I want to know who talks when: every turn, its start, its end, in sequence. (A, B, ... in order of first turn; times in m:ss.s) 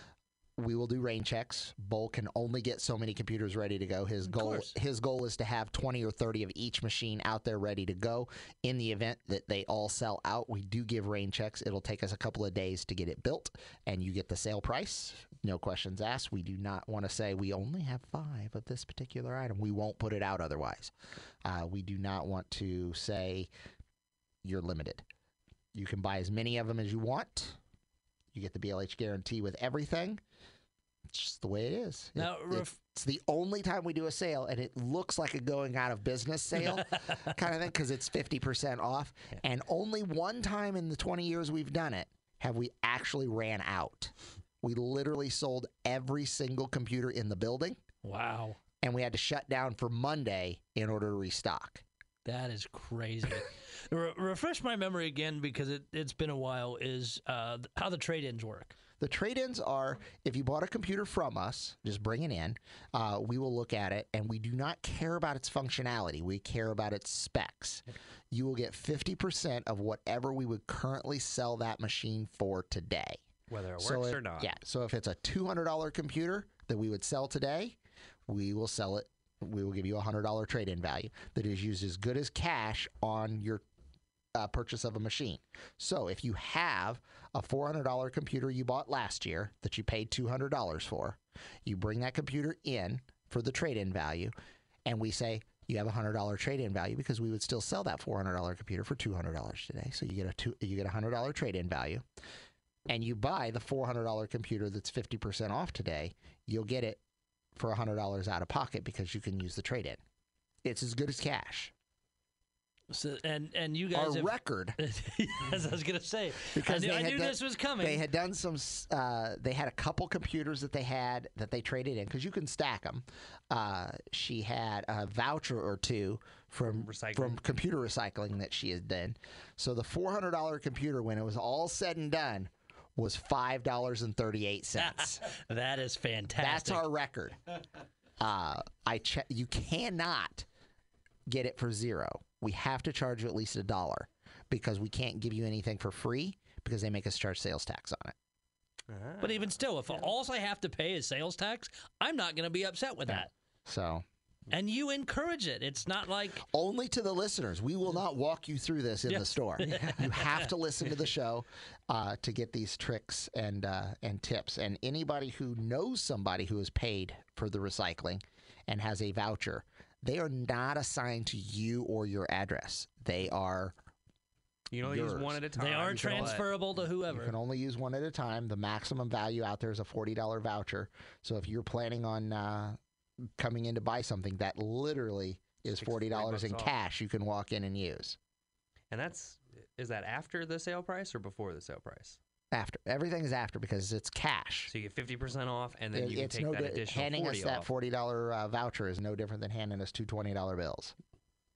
0:00.6-0:20.9 A
0:04.2-0:04.7 B
0:21.4-0:23.5 A
0:24.4-0:25.0 A
0:25.7-0:27.6 A
0:28.3-0:30.2 A
0:31.1-0:47.8 A
0:32.2-0:32.8 B
0:48.0-0:48.6 B
0:48.8-0:51.8 A
0:52.2-0:58.7 B
0:59.0-1:13.2 A
1:13.5-1:14.5 C
1:13.8-1:17.8 A
1:18.3-1:23.6 A
1:24.3-1:34.3 A
1:34.8-1:42.0 A
1:42.9-1:47.0 A
1:47.5-1:50.0 A
1:50.6-1:51.7 A
1:52.9-1:58.0 B
1:53.9-1:54.8 A
1:56.5-2:15.2 A
2:06.7-2:07.4 C
2:14.8-2:16.8 B
2:16.4-2:17.4 A
2:18.2-2:20.5 A
2:21.3-2:28.1 A
2:28.9-2:29.5 C
2:29.2-2:33.3 B
2:33.1-2:34.0 A
2:34.5-2:36.4 B
2:36.5-2:53.7 A
2:39.1-2:40.5 B
2:54.7-2:56.4 C
2:54.8-3:02.8 A
2:55.6-2:57.3 B
3:03.4-3:08.2 A
3:05.6-3:06.7 C
3:08.9-3:12.2 C
3:12.5-3:14.7 A
3:14.7-3:17.7 C
3:15.9-3:20.9 A